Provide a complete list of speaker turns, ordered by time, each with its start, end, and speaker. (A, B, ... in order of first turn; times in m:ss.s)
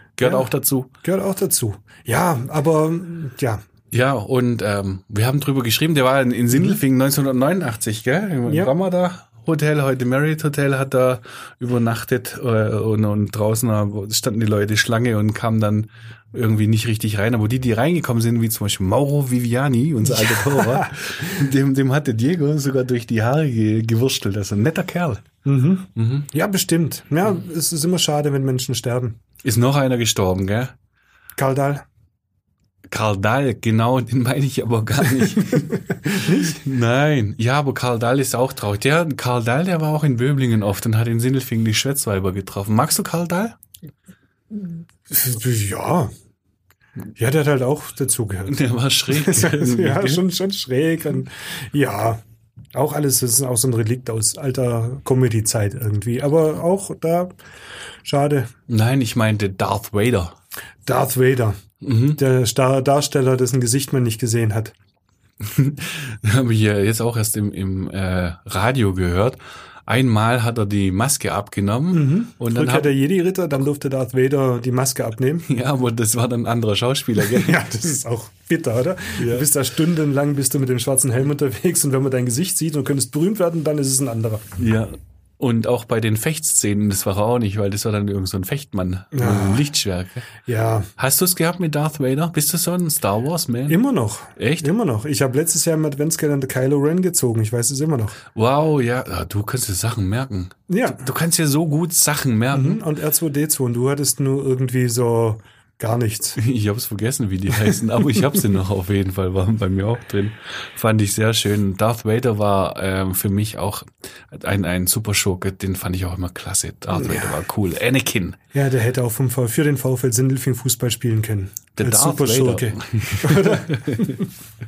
0:00.2-0:00.9 A
0:00.2-0:03.6 B
0:03.9-0:25.2 A
0:06.5-0:06.8 B
0:08.5-0:08.7 B
0:20.0-0:20.9 B
0:25.4-0:29.2 B
0:26.0-0:26.3 A
0:29.4-0:30.7 A
0:31.4-0:31.8 B
0:32.9-0:43.6 A
0:36.2-0:36.6 B
0:45.1-0:46.1 B
0:47.2-0:52.2 B
0:48.5-0:50.2 A
0:52.7-0:57.4 B
0:58.0-0:58.5 B
0:58.7-1:00.4 A
1:00.9-1:01.6 B
1:01.8-1:02.2 A
1:02.2-1:04.7 B
1:05.4-1:13.0 A
1:11.9-1:15.5 B
1:15.5-1:17.6 A
1:17.2-1:24.5 B
1:19.2-1:19.4 A
1:24.6-1:30.3 A
1:29.1-1:29.6 B
1:30.4-1:30.9 B
1:31.0-1:34.7 A
1:33.7-1:38.2 B
1:38.4-1:42.8 A
1:40.7-1:41.0 B
1:42.5-1:46.4 B
1:46.4-1:58.4 A
1:57.0-1:57.4 B
1:58.5-2:04.2 B
2:01.8-2:04.1 A